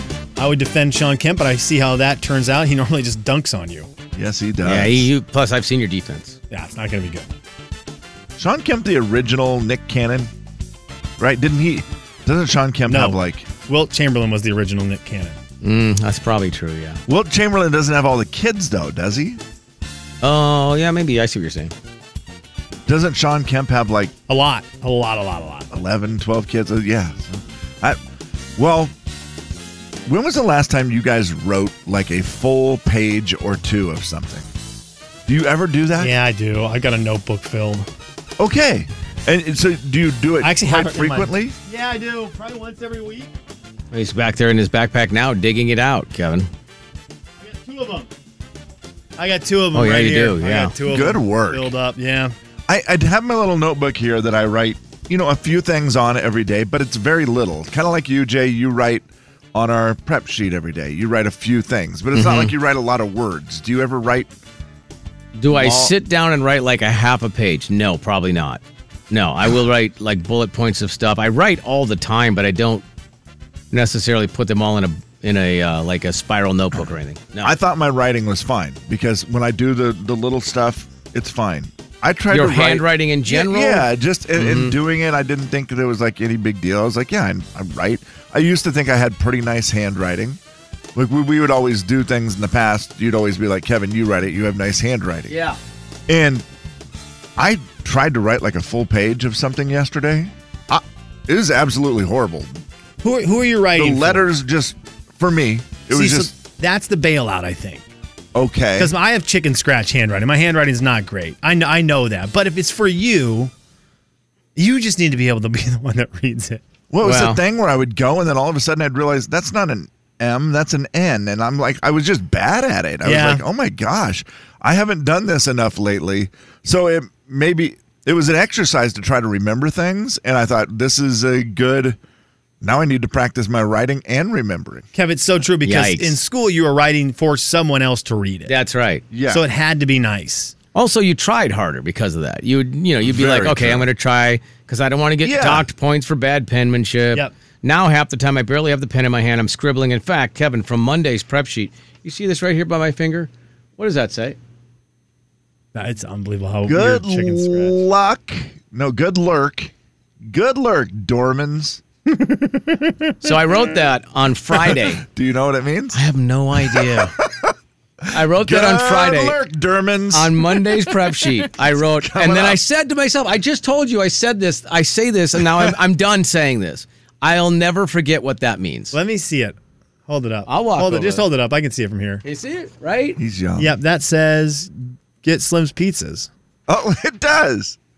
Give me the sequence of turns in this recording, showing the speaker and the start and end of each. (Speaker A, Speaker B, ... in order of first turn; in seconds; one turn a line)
Speaker A: 0.4-3.9
Speaker B: 4.1-5.1
Speaker C: 4.6-6.4
Speaker A: 6.5-7.3
Speaker B: 8.4-10.3
Speaker B: 11.2-13.5
Speaker A: 12.9-15.4
Speaker C: 15.6-17.0
Speaker B: 17.1-19.4
Speaker C: 20.2-21.7
Speaker B: 22.9-24.1
Speaker A: 24.3-25.7
Speaker B: 25.7-28.0
Speaker B: 28.6-28.9
Speaker B: 30.1-34.5
Speaker B: 35.3-36.1
Speaker A: 36.0-37.9
Speaker B: 38.4-41.5
Speaker A: 40.4-43.3
Speaker C: 43.9-46.5
Speaker A: 47.4-48.1
Speaker A: 49.2-52.3
Speaker C: 49.7-50.7
Speaker B: 50.8-51.7
Speaker B: 52.7-64.3
Speaker C: 62.1-62.5
Speaker C: 65.3-72.8
Speaker B: 65.5-66.0
Speaker C: 73.7-77.5
Speaker B: 77.4-90.4
Speaker C: 82.3-84.8
Speaker B: 90.9-95.3
Speaker C: 95.3-95.6
Speaker B: 96.1-96.4
Speaker B: 97.4-102.6
Speaker A: 103.0-104.2
Speaker B: 103.7-106.3
Speaker A: 105.9-107.8
Speaker B: 108.3-108.9
Speaker A: 108.8-113.5
Speaker A: 114.5-116.6
Speaker B: 116.9-132.0
Speaker C: 117.0-117.4
Speaker A: 123.0-123.4
Speaker B: 132.6-134.8
Speaker A: 134.9-138.5
Speaker C: 135.6-136.2
Speaker C: 138.5-139.0
Speaker B: 139.1-139.4
Speaker A: 139.3-140.5
Speaker C: 140.7-154.4
Speaker B: 143.0-143.9
Speaker B: 145.2-145.7
Speaker A: 155.7-157.8
Speaker B: 156.6-159.7
Speaker B: 160.2-161.8
Speaker A: 162.1-163.1
Speaker C: 163.2-165.0
Speaker B: 164.5-172.6
Speaker C: 165.9-167.1
Speaker C: 168.1-169.4
Speaker C: 170.1-178.9
Speaker A: 178.9-182.2
Speaker C: 180.5-181.2
Speaker C: 182.2-183.2
Speaker B: 183.2-183.8
Speaker A: 183.6-186.3
Speaker B: 186.7-187.8